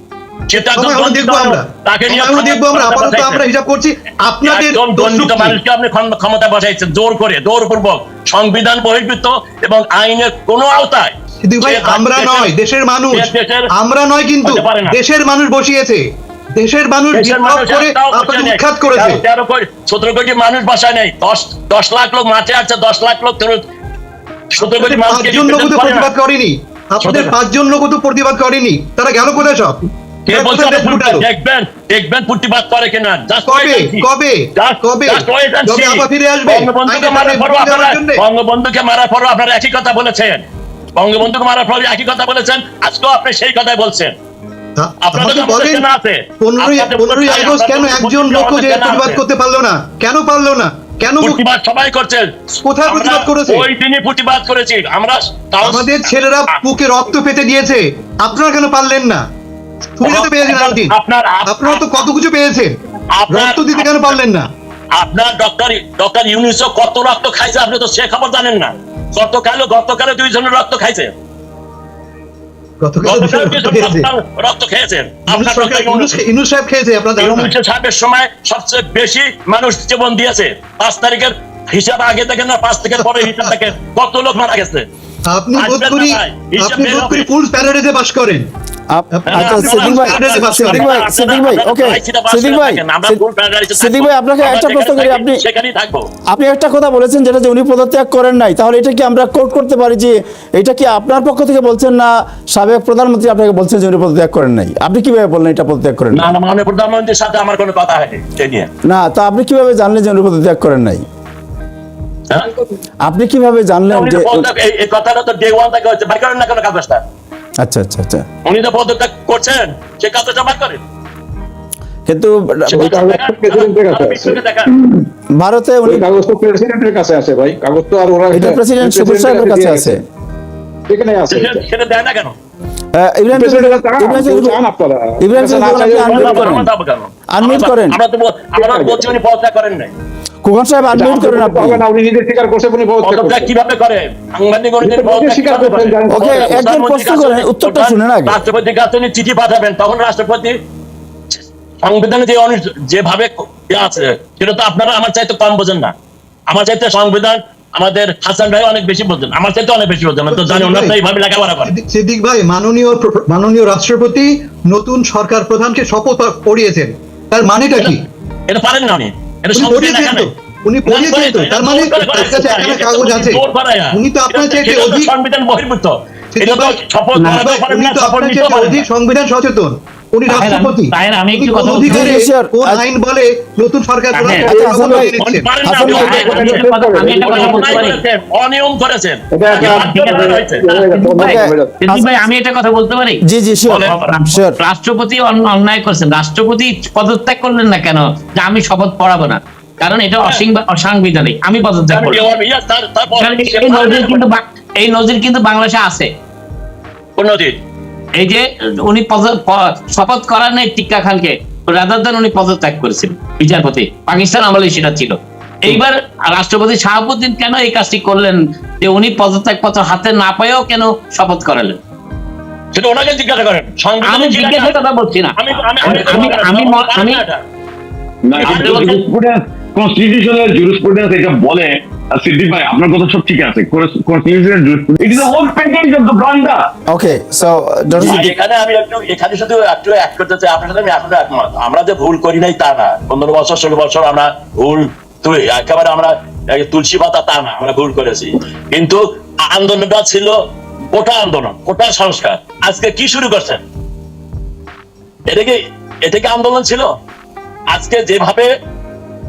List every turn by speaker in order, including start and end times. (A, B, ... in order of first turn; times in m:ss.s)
0:00.5-0:03.4 A
0:00.5-0:05.6 B
0:04.4-0:12.5 A
0:11.4-0:19.2 B
0:13.1-0:13.7 A
0:14.4-0:15.0 A
0:17.1-0:23.6 A
0:24.5-0:26.1 A
0:24.6-0:31.2 B
0:27.0-0:27.3 A
0:30.2-0:44.1 A
0:33.5-0:38.2 B
0:44.8-0:45.8 B
0:45.0-0:49.2 A
0:46.4-0:51.4 B
0:51.2-0:56.6 A
0:52.6-0:53.7 B
0:55.6-0:59.2 B
1:00.0-1:00.9 B
1:00.0-1:02.0 A
1:01.5-1:02.8 B
1:03.1-1:04.2 A
1:03.3-1:04.5 B
1:04.9-1:11.1 A
1:12.8-1:14.1 B
1:13.0-1:16.2 A
1:15.3-1:17.5 B
1:17.2-1:24.9 A
1:23.0-1:23.5 B
1:25.2-1:28.5 B
1:25.6-1:27.3 A
1:28.9-1:33.2 C
1:29.2-1:30.9 B
1:29.3-1:36.1 A
1:33.7-1:35.4 C
1:36.3-1:46.3 C
1:46.1-1:48.7 A
1:48.8-1:51.0 C
1:53.0-1:54.5 C
1:53.9-1:57.0 A
1:57.6-1:58.2 C
1:58.4-2:00.8 A
2:02.0-2:03.1 C
2:02.7-2:04.4 D
2:02.7-2:04.7 A
2:05.3-2:06.1 C
2:05.8-2:10.0 D
2:08.3-2:10.0 C
2:10.9-2:11.7 D
2:11.3-2:12.3 A
2:12.9-2:14.6 C
2:13.3-2:16.5 D
2:15.2-2:16.7 C
2:16.0-2:19.9 A
2:17.3-2:18.0 C
2:18.6-2:19.2 D
2:20.4-2:21.8 C
2:20.9-2:23.5 D
2:23.0-2:30.6 A
2:24.8-2:26.6 D
2:26.1-2:28.4 C
2:31.3-2:35.9 A
2:36.5-2:41.7 A
2:40.3-2:40.9 B
2:41.6-2:48.0 B
2:48.5-2:50.3 A
2:49.5-2:53.4 B
2:50.8-2:58.9 A
2:53.9-2:55.1 B
2:56.3-3:05.5 B
3:00.3-3:02.2 E
3:01.8-3:02.8 C
3:04.1-3:05.1 E
3:04.4-3:05.1 C
3:05.2-3:10.6 A
3:05.6-3:06.1 C
3:05.8-3:08.0 E
3:05.9-3:07.8 D
3:09.3-3:11.8 D
3:09.5-3:22.2 E
3:11.2-3:12.0 C
3:13.2-3:14.6 C
3:13.7-3:14.0 A
3:21.9-3:24.2 A
3:23.2-3:26.1 E
3:27.2-3:27.6 A
3:28.2-3:41.8 E
3:42.7-3:44.8 A
3:44.0-3:47.2 E
3:45.4-3:47.4 A
3:48.2-3:56.7 F
3:48.4-3:48.8 E
3:48.4-3:49.0 A
3:56.9-3:58.3 C
3:58.0-4:10.4 A
4:10.9-4:13.6 A
4:15.3-4:16.9 A
4:17.7-4:18.5 A